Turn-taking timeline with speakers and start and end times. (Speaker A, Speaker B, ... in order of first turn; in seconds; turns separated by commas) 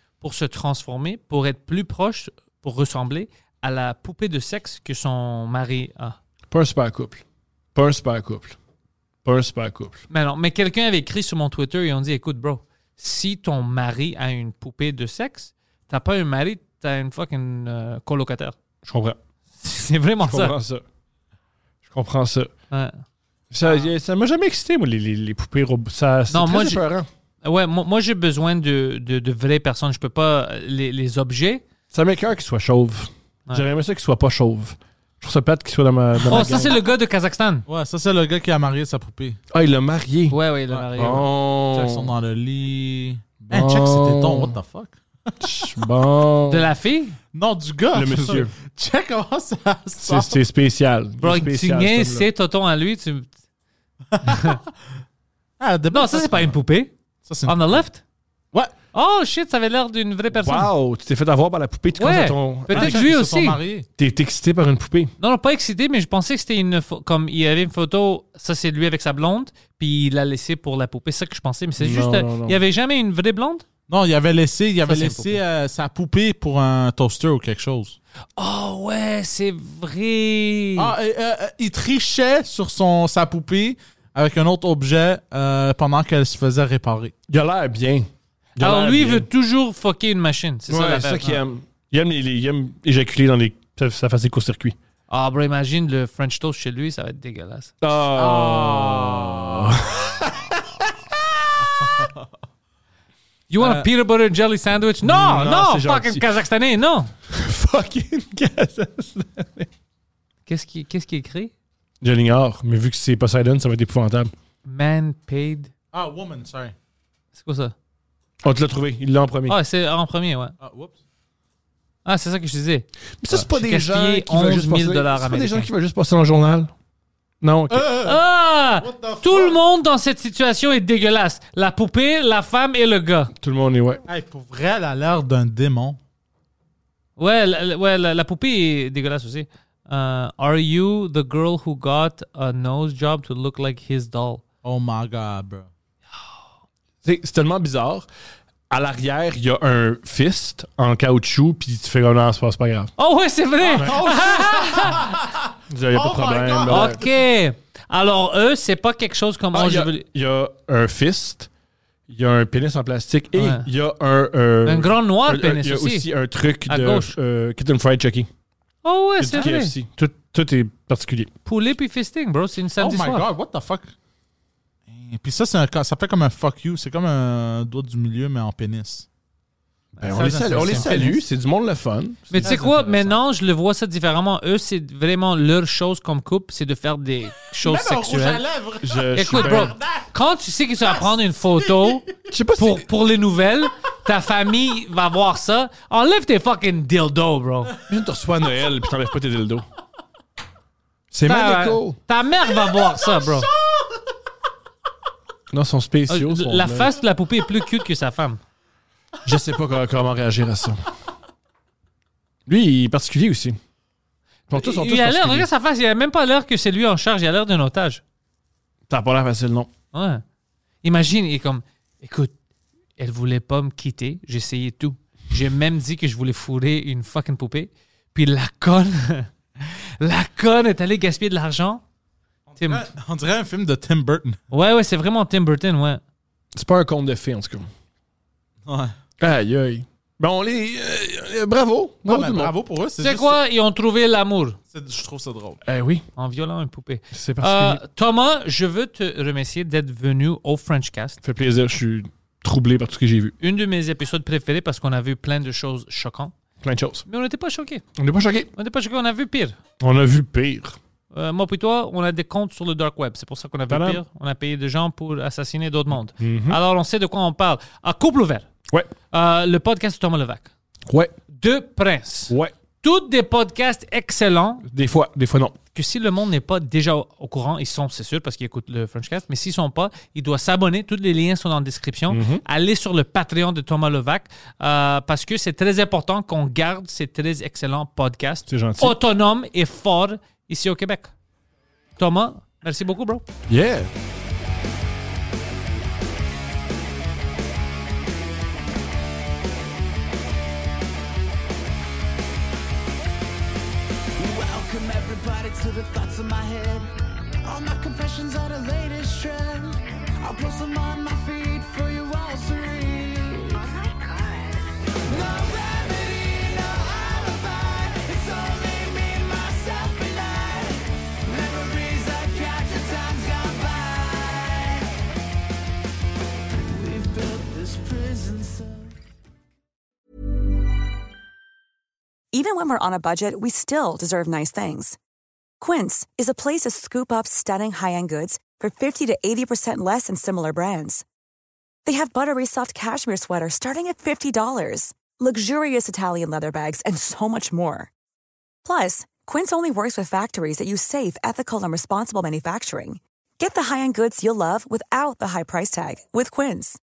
Speaker A: 0.2-6.2, Speaker B: 6.5-7.2, Speaker B: 7.8-8.6, Speaker B: 9.2-10.0, Speaker A: 10.1-18.6, Speaker B: 18.8-19.2, Speaker A: 19.6-20.6, Speaker B: 20.2-20.8, Speaker B: 21.9-22.5, Speaker A: 22.7-23.0, Speaker B: 23.5-27.1, Speaker A: 23.6-23.9, Speaker A: 26.3-26.9, Speaker A: 27.4-31.6, Speaker B: 31.9-36.8, Speaker A: 36.2-37.6, Speaker C: 36.3-36.8, Speaker C: 37.7-39.4, Speaker B: 39.5-40.4, Speaker A: 40.3-41.3, Speaker C: 40.7-45.7, Speaker B: 41.0-42.1, Speaker B: 43.5-44.5, Speaker B: 45.4-46.7, Speaker A: 46.5-47.2, Speaker C: 47.3-50.4, Speaker B: 47.9-48.5, Speaker B: 50.0-52.3, Speaker A: 51.2-53.3, Speaker C: 54.1-54.6, Speaker A: 54.2-54.6, Speaker C: 55.6-56.6, Speaker A: 55.9-56.9, Speaker C: 57.2-57.8, Speaker A: 57.5-58.0, Speaker A: 58.9-60.7, Speaker B: 60.3-63.1, Speaker A: 62.0-63.6, Speaker C: 62.7-63.9, Speaker B: 64.0-65.1, Speaker A: 65.2-73.6, Speaker B: 71.8-72.6, Speaker C: 73.9-78.0, Speaker A: 74.8-75.4, Speaker A: 78.4-80.9, Speaker C: 80.8-87.1, Speaker B: 87.3-89.3, Speaker A: 88.6-91.4, Speaker B: 90.7-94.8, Speaker A: 95.1-97.7, Speaker B: 97.8-101.7, Speaker C: 98.2-99.5, Speaker A: 103.5-107.1, Speaker B: 103.6-103.8, Speaker B: 105.0-106.2, Speaker B: 107.3-109.7, Speaker A: 110.5-111.5, Speaker B: 112.0-114.3, Speaker A: 114.7-115.7, Speaker C: 115.9-116.8, Speaker A: 117.4-117.8, Speaker B: 118.4-119.6, Speaker A: 119.5-120.5, Speaker C: 120.6-121.0, Speaker A: 122.0-125.7, Speaker B: 123.2-126.7, Speaker B: 127.4-127.9, Speaker C: 127.7-128.2, Speaker A: 127.9-133.3, Speaker C: 128.8-129.6, Speaker B: 133.3-134.0, Speaker C: 134.1-136.0, Speaker A: 137.2-144.4, Speaker C: 144.6-145.7, Speaker B: 147.0-148.1, Speaker B: 148.7-152.9, Speaker A: 153.0-155.2, Speaker C: 153.6-155.4, Speaker B: 153.7-154.0, Speaker B: 155.7-157.0, Speaker C: 155.9-157.1, Speaker A: 156.7-160.0, Speaker B: 159.5-161.5, Speaker B: 162.1-168.3, Speaker A: 163.3-163.7, Speaker A: 164.7-166.1, Speaker A: 166.7-167.2, Speaker A: 168.8-169.8, Speaker B: 169.2-171.3, Speaker A: 171.4-173.3, Speaker C: 172.8-173.9, Speaker C: 174.9-179.1, Speaker A: 180.0-181.2, Speaker B: 180.0-182.6, Speaker C: 180.0-181.2, Speaker A: 182.3-188.4, Speaker C: 182.4-183.1, Speaker C: 187.6-190.1, Speaker B: 188.8-189.8, Speaker A: 189.1-197.8, Speaker B: 192.3-192.9, Speaker B: 197.8-199.7, Speaker B: 201.1-202.0, Speaker A: 201.3-203.5, Speaker B: 205.5-207.0, Speaker A: 206.1-208.4, Speaker B: 209.2-210.9, Speaker B: 212.5-213.6, Speaker A: 214.5-218.0, Speaker B: 214.5-215.5, Speaker B: 218.9-219.7, Speaker A: 219.9-220.2, Speaker A: 220.8-222.3, Speaker A: 223.0-231.8, Speaker C: 232.5-234.4, Speaker A: 232.6-232.9, Speaker A: 234.5-236.0, Speaker B: 236.5-237.7, Speaker C: 238.7-238.9, Speaker B: 239.2-242.5, Speaker C: 242.1-243.4, Speaker A: 243.0-244.6, Speaker C: 244.7-245.6, Speaker B: 245.6-246.1, Speaker A: 246.2-251.2, Speaker B: 247.1-247.8, Speaker B: 251.2-253.4, Speaker A: 253.4-256.3, Speaker B: 256.6-257.1, Speaker A: 257.1-257.9, Speaker B: 257.9-258.5, Speaker A: 258.5-259.6, Speaker B: 259.8-260.8, Speaker A: 261.1-268.5, Speaker B: 263.7-264.0, Speaker B: 265.9-266.6, Speaker A: 269.1-270.5, Speaker B: 270.9-271.1, Speaker A: 271.3-274.7, Speaker B: 274.7-275.6, Speaker A: 275.8-291.1, Speaker B: 282.1-282.4, Speaker B: 288.5-289.0, Speaker A: 292.0-293.2, Speaker B: 293.5-293.9, Speaker D: 304.2-306.9, Speaker D: 307.4-314.4, Speaker D: 315.1-324.9, Speaker D: 326.7-328.9, Speaker E: 332.3-335.0, Speaker E: 335.6-341.0, Speaker E: 341.9-347.9, Speaker E: 348.6-356.8